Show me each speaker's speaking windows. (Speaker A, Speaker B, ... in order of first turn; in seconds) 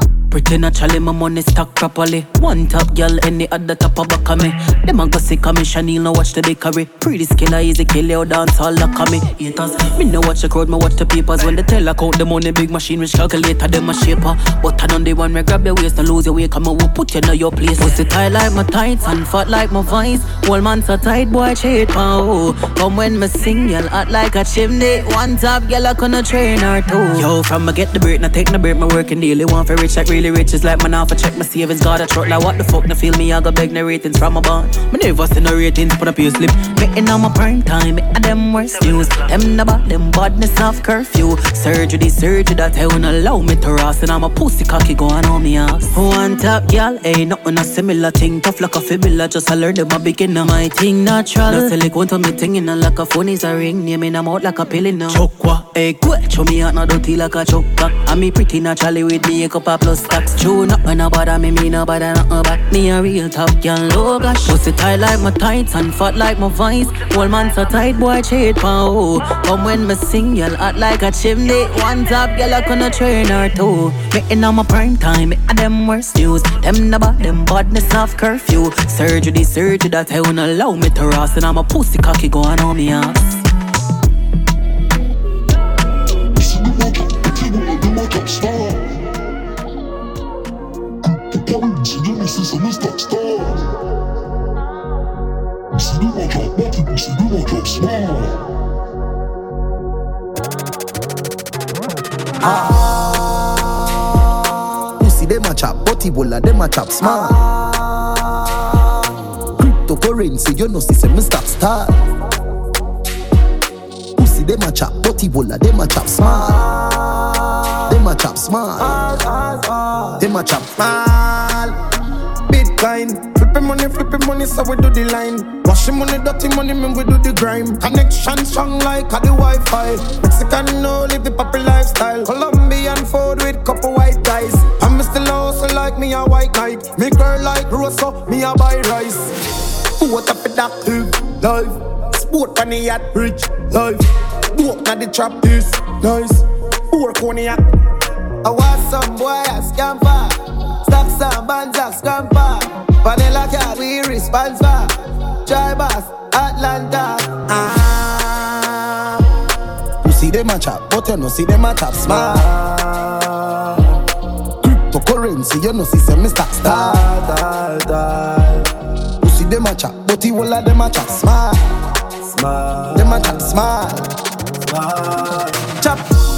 Speaker A: 0.3-83.3
Speaker B: 105.0-107.3, 109.6-112.0, 114.2-116.5, 117.9-118.9, 120.2-120.7, 160.0-162.2, 164.6-166.8, 169.3-170.1
Speaker C: 107.0-107.7, 116.2-117.4, 118.8-121.8, 122.5-139.3, 140.0-147.6, 148.4-159.1, 162.0-162.8, 166.7-168.4, 170.5-171.5, 172.9-174.0, 175.8-176.0